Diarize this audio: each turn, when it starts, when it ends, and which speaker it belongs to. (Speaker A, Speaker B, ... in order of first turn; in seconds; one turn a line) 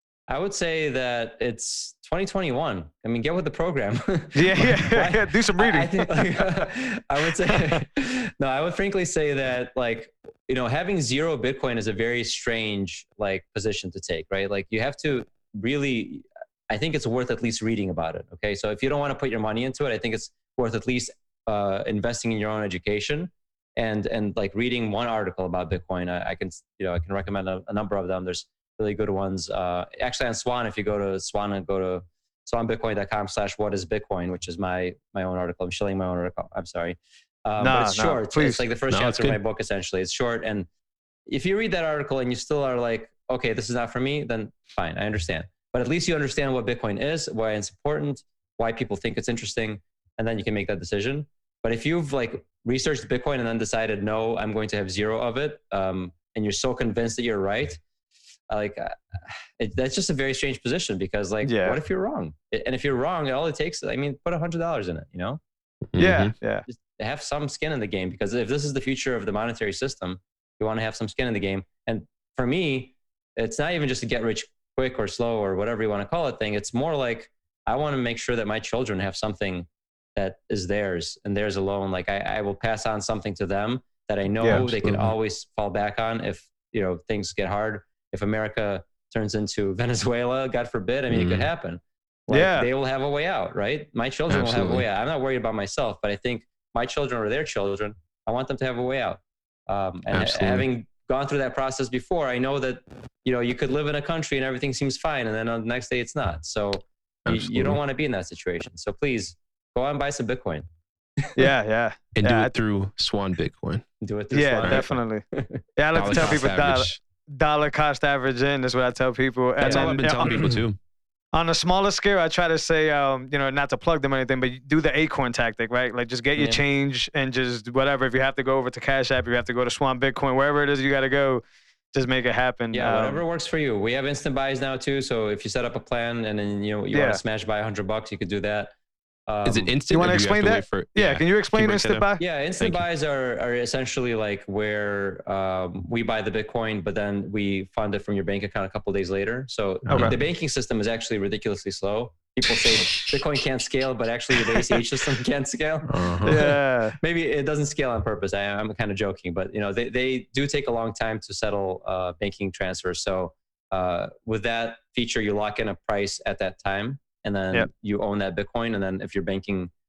Speaker A: 0.3-40.7
Speaker B: 4.3-6.5
Speaker B: 7.5-7.8
Speaker B: 37.6-38.6
Speaker C: 38.9-39.4
Speaker A: 41.3-57.8
Speaker A: 58.5-65.4
Speaker B: 61.4-61.8
Speaker C: 65.9-66.3
Speaker B: 66.0-66.7
Speaker A: 66.7-110.7
Speaker C: 84.5-85.1
Speaker C: 91.1-91.5
Speaker B: 92.3-92.7
Speaker C: 94.3-94.8
Speaker C: 100.1-100.7
Speaker C: 107.2-107.8
Speaker B: 111.3-112.5
Speaker C: 112.1-113.8
Speaker A: 114.0-116.4
Speaker B: 114.3-115.2
Speaker C: 114.6-114.9
Speaker B: 115.8-120.4
Speaker C: 115.9-117.0
Speaker C: 119.6-120.8
Speaker A: 119.7-120.5
Speaker B: 121.3-133.2
Speaker A: 132.7-138.7
Speaker B: 136.9-137.2
Speaker A: 139.3-139.8
Speaker C: 139.4-142.1
Speaker B: 139.9-142.2
Speaker A: 142.2-169.7
Speaker C: 149.9-150.2
Speaker B: 149.9-150.2
Speaker C: 155.8-156.4
Speaker B: 156.2-157.0